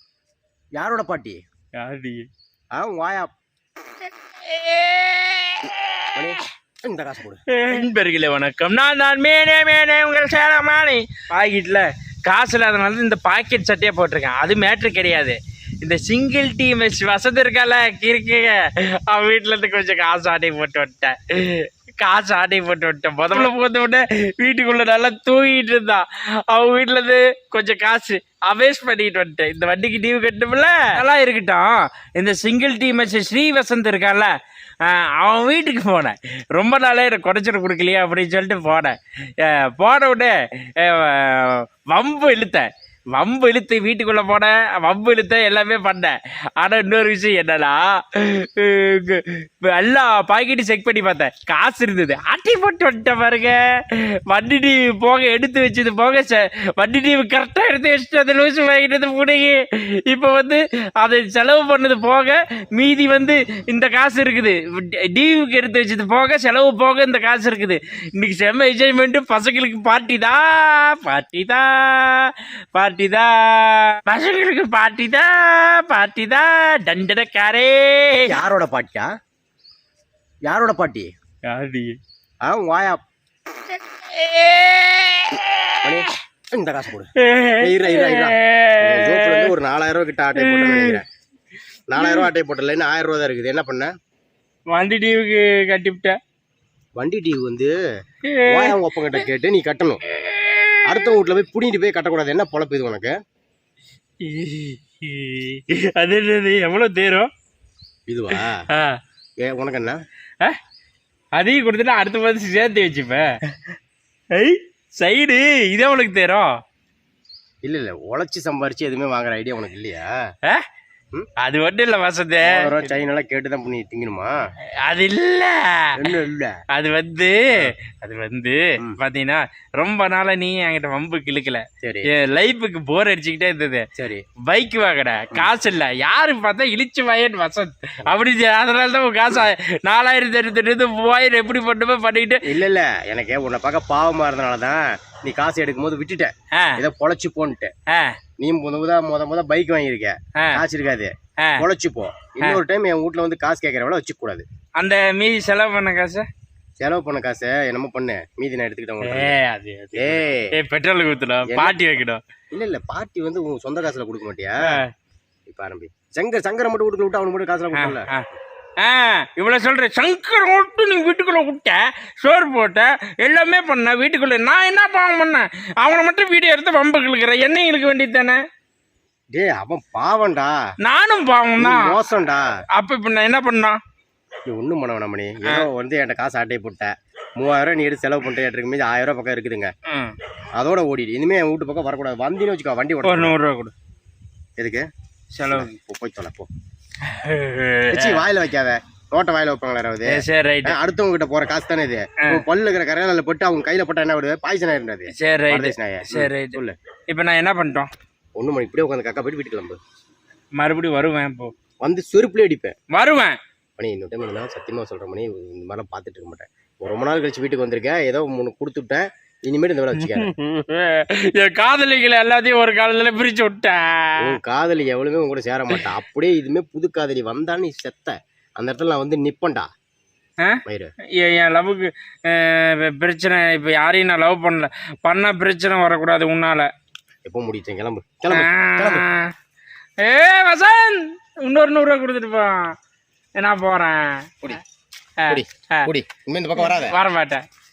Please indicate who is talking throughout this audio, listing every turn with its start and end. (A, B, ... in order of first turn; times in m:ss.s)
0:00.8-0:01.4 A
0:01.7-0:02.3 B
0:02.7-0:03.3 A
0:04.4-0:06.3 B
0:06.1-0:07.4 A
0:07.5-1:18.4 B
1:18.2-1:19.1 A
1:20.5-1:21.1 A
1:21.4-1:22.0 B
1:22.4-1:23.0 A
1:23.7-1:26.1 B
1:25.8-1:31.0 A
1:27.2-1:29.5 B
1:30.4-1:31.0 B
1:31.9-1:33.9 A
1:32.0-1:32.3 B
1:34.7-1:36.2 B
1:37.0-1:37.7 A
1:38.2-1:39.2 B
1:38.4-1:40.0 A
1:40.3-1:41.1 B
1:40.8-1:43.1 A
1:44.2-1:47.3 B
1:48.1-1:48.6 A
1:48.4-1:49.0 B
1:49.4-1:50.0 A
1:51.4-1:53.3 B
1:54.3-1:56.5 B
1:57.6-2:00.1 A
2:01.4-2:02.9 B
2:02.4-2:04.3 A
2:04.8-2:06.0 B
2:06.0-2:06.6 A
2:06.7-2:13.8 B
2:14.0-2:14.2 A
2:14.4-2:22.5 B
2:22.4-2:27.7 A
2:26.5-2:26.8 B
2:27.9-2:28.2 B
2:28.4-2:34.4 A
2:30.4-2:30.6 B
2:31.4-2:31.6 B
2:34.8-2:36.3 B
2:36.8-2:39.4 A
2:39.0-2:42.2 B
2:40.0-2:40.5 A
2:41.5-2:41.8 A
2:42.5-2:44.5 A
2:44.6-2:44.9 B
2:45.5-2:48.1 A
2:47.7-2:48.2 B
2:48.8-2:58.4 B
2:59.3-3:00.5 A
3:00.8-3:02.0 B
3:01.6-3:02.5 A
3:02.8-3:03.8 B
3:04.5-3:09.7 A
3:09.9-3:10.1 B
3:10.6-3:13.4 A
3:13.0-3:13.7 B
3:14.6-3:14.8 A
3:15.3-3:15.7 B
3:15.5-3:16.5 A
3:17.0-3:18.2 B
3:17.9-3:26.8 A
3:20.1-3:20.8 B
3:25.1-3:26.6 B
3:27.1-3:27.9 B
3:28.4-3:29.8 A
3:30.6-3:31.5 B
3:31.8-3:32.8 A
3:32.9-3:33.4 B
3:33.8-3:40.3 A
3:40.0-3:44.3 B
3:44.2-3:49.7 A
3:50.6-3:50.9 A
3:51.2-3:56.7 B
3:57.2-3:59.1 A
3:58.3-3:59.3 B
4:00.0-4:02.7 B
4:03.4-4:04.6 B
4:05.2-4:05.9 B
4:05.3-4:07.0 A
4:06.6-4:07.4 B